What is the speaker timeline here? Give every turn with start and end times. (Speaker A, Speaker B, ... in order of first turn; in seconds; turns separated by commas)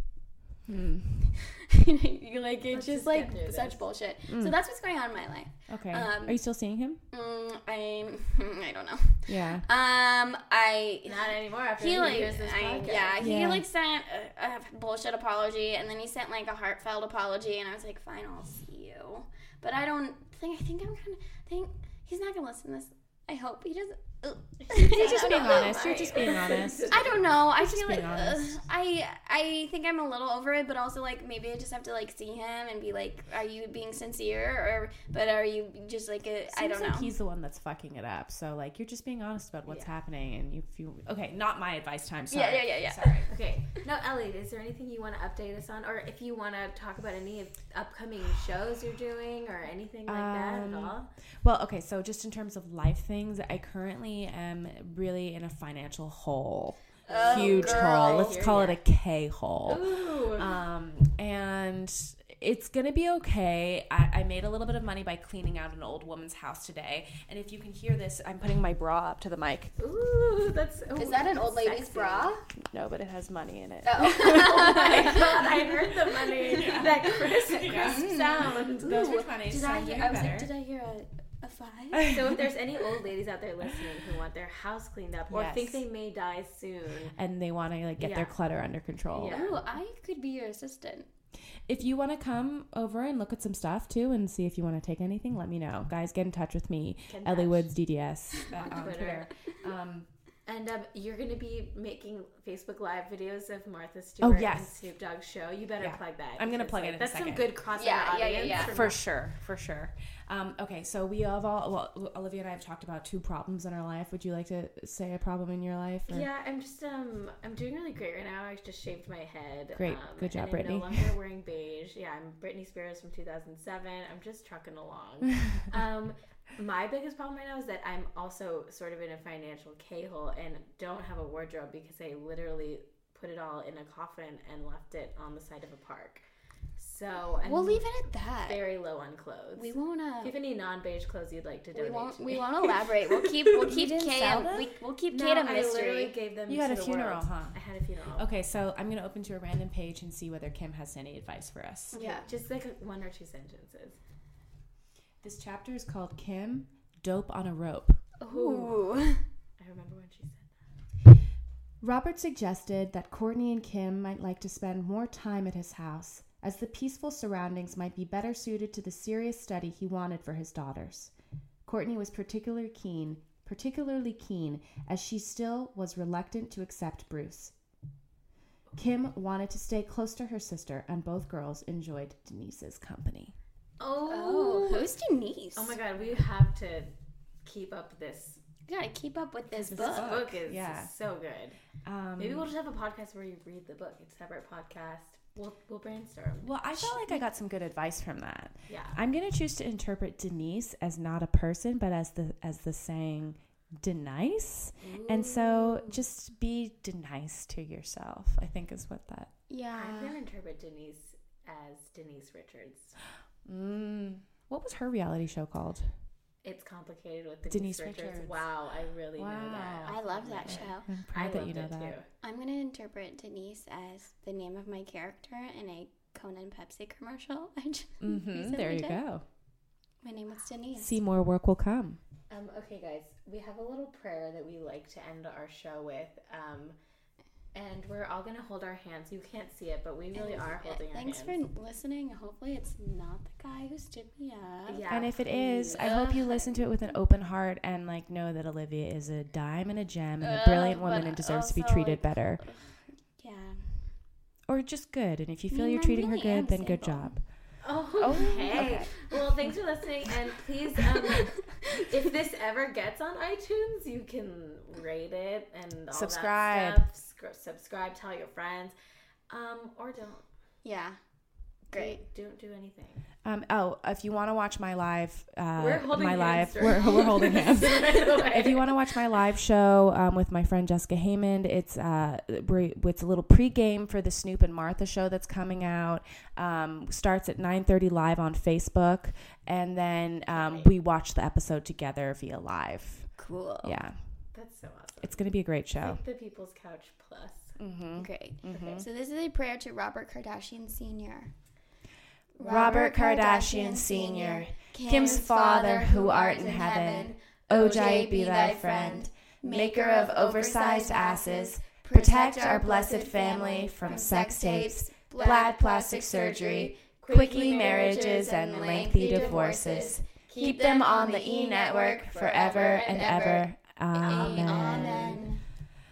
Speaker A: 0.7-1.4, Speaker B: 1.5-6.4, Speaker C: 2.7-3.9, Speaker A: 4.3-4.6, Speaker A: 5.7-7.0, Speaker B: 7.1-11.2, Speaker A: 9.3-9.7, Speaker C: 11.1-13.2, Speaker B: 11.8-26.3, Speaker A: 13.2-13.7, Speaker C: 24.7-27.2, Speaker A: 25.0-28.6, Speaker B: 26.9-37.1, Speaker A: 36.5-43.3, Speaker C: 39.7-39.9, Speaker B: 42.3-43.3, Speaker C: 43.3-51.1, Speaker A: 50.1-69.8, Speaker B: 57.1-58.4, Speaker C: 57.1-58.8, Speaker C: 59.7-60.5, Speaker C: 69.8-72.3, Speaker B: 71.0-72.4, Speaker A: 72.7-75.5, Speaker B: 73.8-75.5, Speaker C: 74.2-79.2, Speaker A: 76.4-80.5, Speaker B: 76.5-76.8, Speaker B: 77.8-82.2, Speaker A: 82.0-82.2, Speaker C: 82.0-87.2, Speaker A: 85.3-85.8, Speaker A: 87.2-89.5, Speaker C: 88.0-88.4, Speaker C: 89.1-89.6, Speaker B: 89.3-91.1, Speaker A: 91.7-100.1, Speaker C: 97.1-97.7, Speaker C: 98.5-99.3, Speaker C: 100.5-109.0, Speaker A: 104.2-104.7, Speaker A: 105.8-107.6, Speaker B: 107.7-108.8, Speaker A: 108.5-116.3, Speaker C: 116.1-136.2, Speaker A: 119.8-121.1, Speaker C: 136.8-143.1, Speaker B: 137.4-138.6, Speaker B: 139.6-140.3, Speaker B: 141.7-146.2, Speaker A: 143.5-144.7, Speaker C: 145.1-148.3, Speaker A: 146.5-147.6, Speaker A: 148.2-152.0, Speaker C: 151.9-154.0, Speaker B: 151.9-152.3, Speaker A: 155.2-158.0, Speaker B: 158.2-159.2, Speaker C: 158.3-158.8, Speaker C: 159.6-160.5, Speaker A: 161.8-171.1, Speaker A: 171.7-177.5, Speaker A: 178.8-183.3, Speaker C: 183.8-184.9, Speaker B: 184.1-185.8, Speaker C: 185.6-186.9, Speaker C: 187.4-188.4, Speaker B: 188.7-190.2, Speaker A: 189.6-190.9, Speaker C: 189.7-191.6, Speaker A: 191.8-192.5, Speaker C: 192.2-196.5, Speaker A: 196.4-209.3, Speaker B: 196.7-197.3, Speaker C: 198.7-199.0, Speaker C: 204.8-206.0, Speaker B: 209.5-210.2, Speaker C: 209.8-213.0, Speaker A: 213.4-216.0, Speaker C: 216.4-222.1, Speaker A: 217.5-218.4, Speaker A: 219.2-222.0, Speaker B: 219.8-220.9, Speaker B: 222.2-229.0, Speaker A: 228.0-229.2, Speaker B: 230.0-231.0, Speaker A: 230.8-232.0, Speaker C: 232.3-236.8, Speaker C: 237.5-241.4, Speaker B: 240.2-244.8, Speaker C: 244.7-245.9, Speaker A: 244.9-252.4, Speaker B: 245.7-246.9, Speaker B: 250.2-253.9, Speaker A: 254.5-258.9, Speaker B: 255.5-257.2, Speaker C: 257.6-268.7, Speaker B: 258.2-259.0, Speaker A: 265.9-266.8, Speaker C: 269.3-270.2, Speaker B: 270.6-271.0, Speaker B: 271.7-272.0, Speaker C: 271.7-273.1, Speaker A: 273.2-294.1, Speaker C: 275.6-278.8, Speaker C: 290.3-290.7, Speaker B: 293.2-293.8, Speaker C: 294.3-297.6, Speaker A: 295.0-296.0, Speaker A: 297.6-298.9, Speaker B: 298.0-301.3, Speaker C: 298.5-298.9, Speaker B: 302.4-323.5, Speaker A: 302.4-325.3, Speaker C: 307.5-308.1, Speaker C: 313.8-314.1, Speaker C: 317.0-321.0, Speaker C: 322.3-323.4, Speaker C: 323.9-325.4, Speaker B: 324.0-325.4